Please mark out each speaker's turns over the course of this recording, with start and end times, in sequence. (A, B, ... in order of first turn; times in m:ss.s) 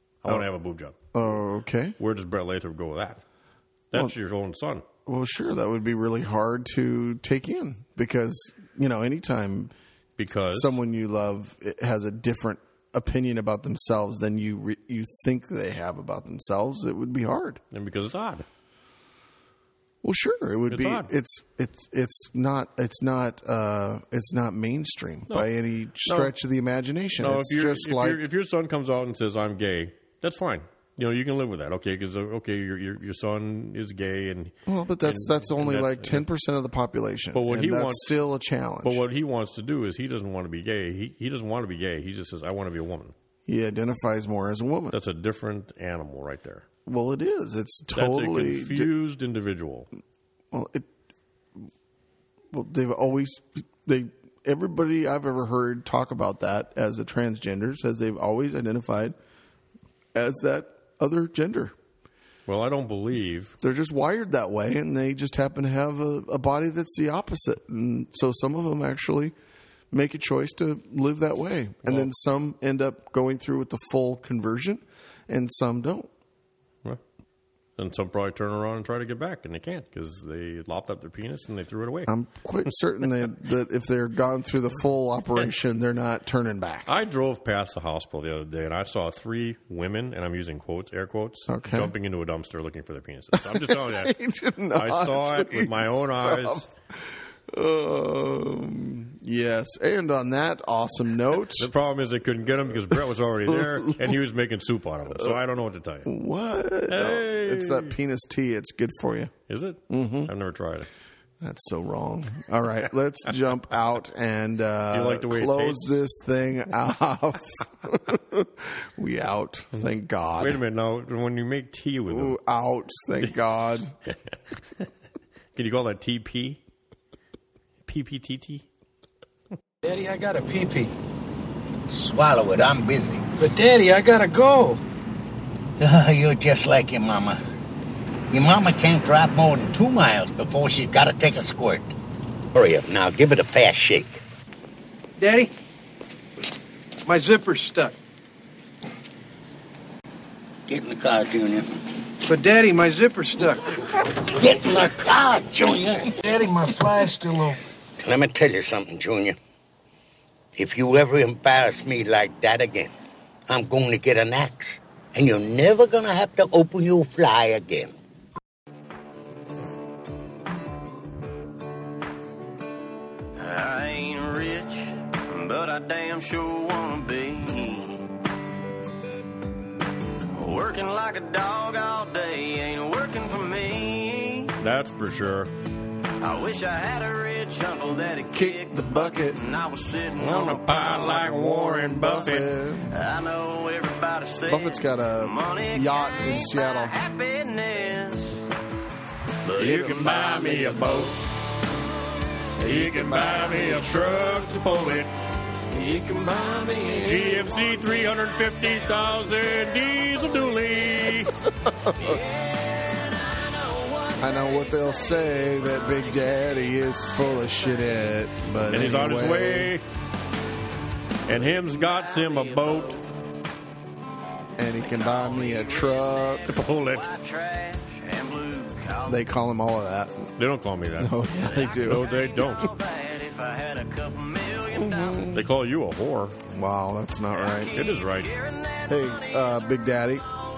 0:00.2-0:01.0 A
0:01.1-0:02.0 B
0:02.0-0:03.2 A
0:03.9-0:04.8 A
0:05.0-0:09.7 B
0:10.2-0:10.8 A
0:10.5-0:17.6 B
0:17.7-0:18.4 A
0:20.0-0:28.2 B
0:20.7-0:21.1 A
0:26.0-0:26.3 A
0:27.2-0:36.2 A
0:34.6-0:39.0 B
0:37.3-0:38.2 A
0:38.8-0:43.1 A
0:43.5-0:45.0 B
0:44.9-0:46.6 A
0:46.8-0:48.9 B
0:47.9-0:49.9 A
0:50.5-0:50.9 B
0:52.5-0:59.1 B
1:00.1-1:01.7 B
1:02.5-1:03.5 A
1:03.6-1:09.3 B
1:09.9-1:16.1 B
1:11.8-1:12.1 A
1:17.8-1:22.1 A
1:22.1-1:26.9 B
1:26.8-1:34.1 A
1:31.5-1:31.9 B
1:33.4-1:41.7 B
1:34.7-1:36.7 A
1:41.5-1:46.1 A
1:43.5-1:44.1 B
1:46.0-1:49.3 B
1:46.9-1:47.9 A
1:49.5-1:50.9 A
1:49.9-1:50.3 B
1:51.4-2:00.6 B
1:54.9-1:56.0 A
2:00.4-2:02.4 A
2:02.1-2:03.9 B
2:04.0-2:04.9 A
2:05.5-2:06.6 A
2:07.8-2:08.7 A
2:09.8-2:10.9 C
2:11.9-2:13.2 D
2:13.4-2:14.8 C
2:15.8-2:17.4 D
2:18.3-2:21.9 D
2:22.5-2:24.2 D
2:25.2-2:25.5 C
2:27.1-2:27.9 C
2:30.7-2:31.8 D
2:32.3-2:33.6 C
2:34.0-2:36.3 D
2:36.3-2:37.5 C
2:38.0-2:39.4 D
2:40.6-2:42.9 D
2:43.5-2:47.9 D
2:53.4-2:58.0 E
3:00.3-3:04.5 E
3:04.6-3:05.5 A
3:06.2-3:11.5 E
3:08.3-3:09.4 B
3:10.2-3:12.5 A
3:11.8-3:12.9 B
3:12.9-3:18.4 E
3:14.5-3:17.0 B
3:19.4-3:21.0 E
3:19.5-3:21.2 A
3:22.6-3:25.1 A
3:22.7-3:24.1 E
3:25.7-3:27.9 E
3:26.8-3:31.3 A
3:31.8-3:32.2 B
3:32.0-3:36.2 E
3:34.2-3:39.7 B
3:38.7-3:39.8 A
3:41.2-3:43.0 A
3:41.3-3:42.9 E
3:44.6-3:46.4 B
3:44.8-3:49.2 E
3:46.4-3:47.1 A
3:49.0-3:50.3 B
3:50.4-3:52.7 A
3:51.0-3:52.1 B
3:51.4-3:55.3 E
3:54.7-3:55.4 B
3:55.3-3:56.4 A
3:56.5-3:57.7 B
3:57.3-3:59.6 E
3:57.7-3:58.3 A
3:58.8-4:00.3 B